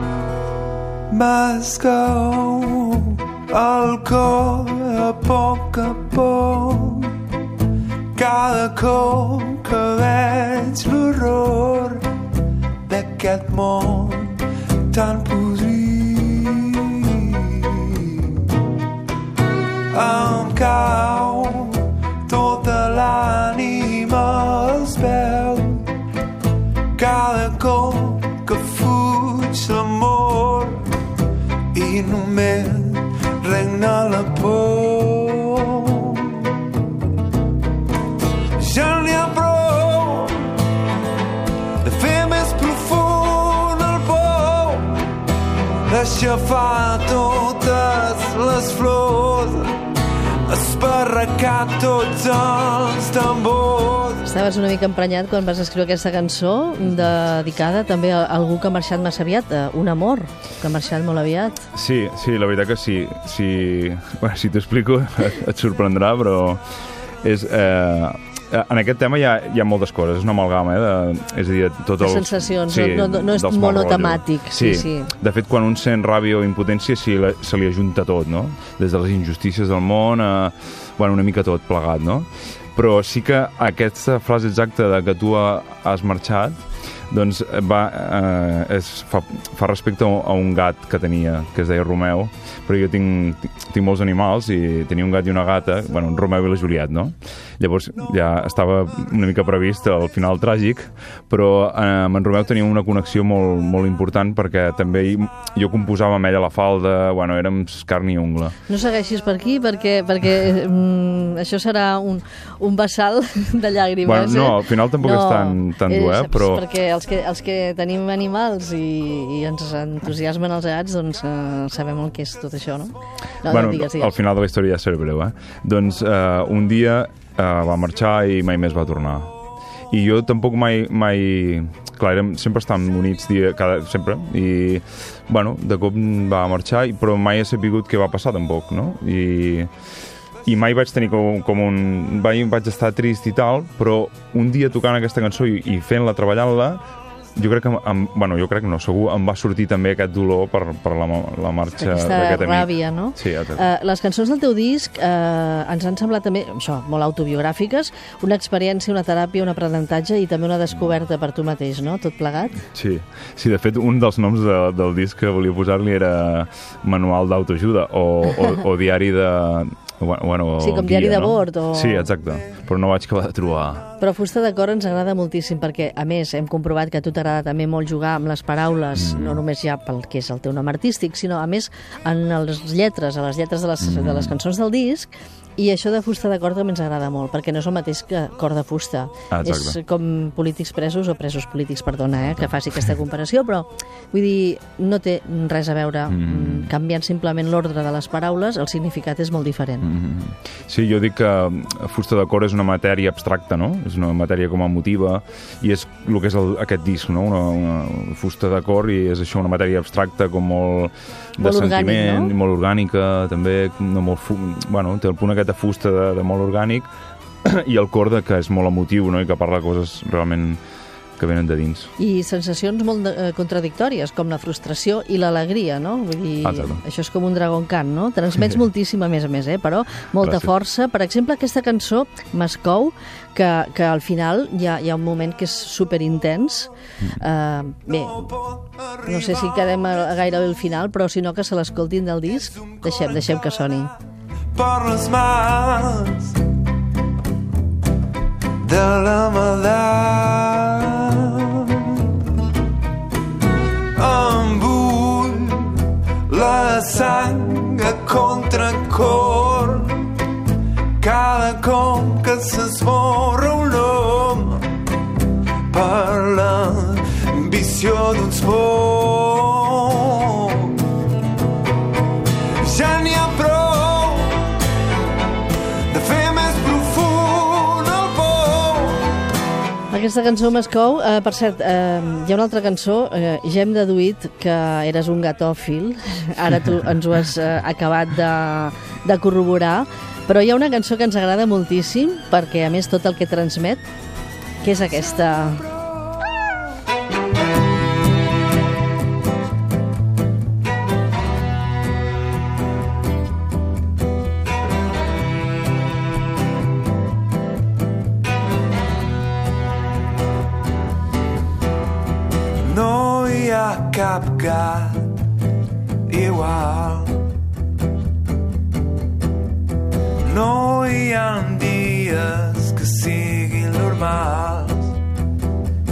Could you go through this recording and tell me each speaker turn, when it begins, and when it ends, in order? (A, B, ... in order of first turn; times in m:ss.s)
0:01.1-0:07.2 A
0:08.1-0:12.1 A
0:12.9-0:18.4 A
0:19.9-0:25.9 A
0:26.9-0:30.9 A
0:31.7-0:36.5 A
0:38.6-0:40.6 A
0:41.8-0:45.0 A
0:45.8-0:49.8 A
0:50.4-0:54.3 A
0:54.2-1:01.7 B
1:01.7-1:06.6 C
1:07.2-1:48.6 C
1:12.0-1:15.1 B
1:48.7-2:04.1 B
1:54.0-1:56.6 C
2:03.4-2:09.3 C
2:09.9-2:19.7 C
2:20.4-2:26.8 C
2:27.4-2:33.7 C
2:31.8-2:42.6 B
2:42.7-2:53.9 C
2:50.6-2:52.1 B
2:54.0-3:19.9 B
2:59.0-2:59.4 C
3:03.8-3:04.3 C
3:09.3-3:09.8 C
3:16.1-3:16.7 C
3:19.8-3:36.9 C
3:31.4-3:32.3 B
3:37.4-3:40.6 C
3:41.2-3:41.9 C
3:42.0-3:58.4 B
3:46.4-3:46.8 C
3:50.2-3:50.5 C
3:58.9-3:59.4 A
3:59.0-4:03.9 B
4:04.5-4:06.4 A
4:08.6-4:12.1 A
4:13.9-4:20.1 A
4:21.0-4:24.7 A
4:25.7-4:30.8 A
4:32.6-4:34.6 A
4:35.9-4:39.2 A
4:39.9-4:53.8 B
4:54.6-4:55.7 B
5:12.6-5:15.2 A
5:16.1-5:17.2 A
5:20.2-5:24.9 A